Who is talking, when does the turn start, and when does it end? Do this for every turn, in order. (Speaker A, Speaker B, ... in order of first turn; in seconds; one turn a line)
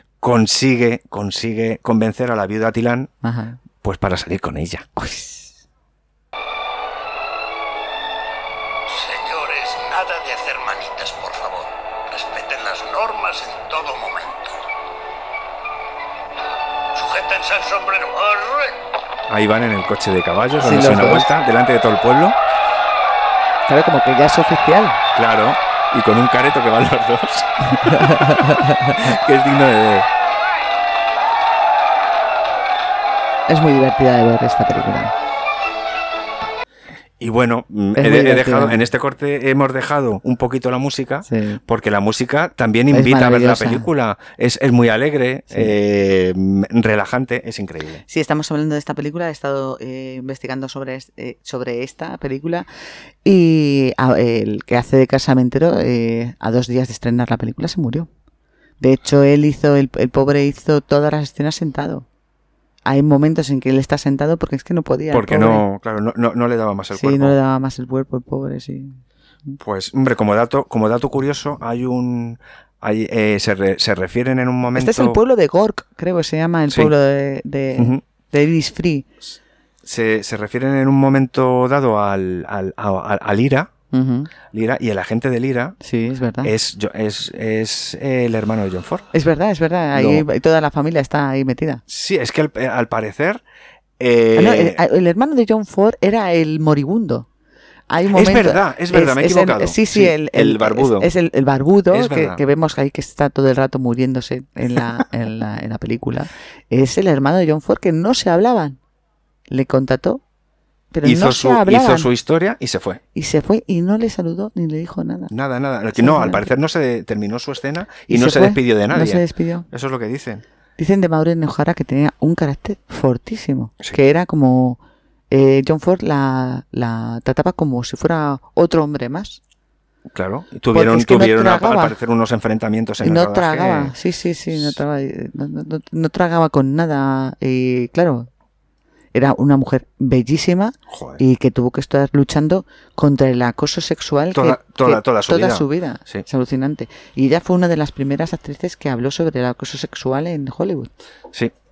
Speaker A: 0.2-3.1
Speaker B: 3.2-3.6
Speaker A: 3.8-4.9
Speaker B: 5.0-5.6
Speaker C: 8.9-14.6
Speaker C: 16.9-18.8
Speaker A: 19.3-22.4
Speaker B: 20.6-21.3
Speaker B: 23.7-25.0
Speaker A: 25.1-28.3
Speaker B: 27.8-28.9
Speaker A: 28.9-30.1
Speaker B: 33.5-35.1
Speaker A: 37.2-48.0
Speaker B: 38.0-38.8
Speaker B: 41.2-41.6
Speaker B: 42.9-43.9
Speaker B: 48.1-52.6
Speaker B: 53.2-58.1
Speaker B: 58.8-62.0
Speaker B: 62.9-65.6
Speaker A: 65.1-67.4
Speaker B: 66.9-69.6
Speaker A: 69.6-75.2
Speaker B: 74.7-79.1
Speaker A: 76.7-76.9
Speaker A: 77.7-78.0
Speaker A: 79.8-83.7
Speaker B: 83.9-84.3
Speaker A: 84.5-85.8
Speaker B: 85.8-86.5
Speaker A: 86.4-89.1
Speaker B: 89.1-91.8
Speaker A: 89.9-90.2
Speaker A: 91.9-93.4
Speaker A: 94.0-94.8
Speaker B: 94.3-97.2
Speaker B: 97.9-108.8
Speaker A: 98.1-101.1
Speaker A: 101.9-102.4
Speaker B: 109.5-110.2
Speaker B: 110.9-112.1
Speaker A: 111.0-113.0
Speaker B: 113.1-115.3
Speaker A: 115.3-120.4
Speaker B: 115.9-116.5
Speaker B: 118.1-119.7
Speaker B: 120.8-124.8
Speaker B: 125.3-129.4
Speaker A: 130.1-133.9
Speaker B: 130.7-131.9
Speaker B: 133.0-138.3
Speaker A: 134.5-134.8
Speaker B: 139.1-150.9
Speaker A: 140.9-141.2
Speaker A: 144.3-146.2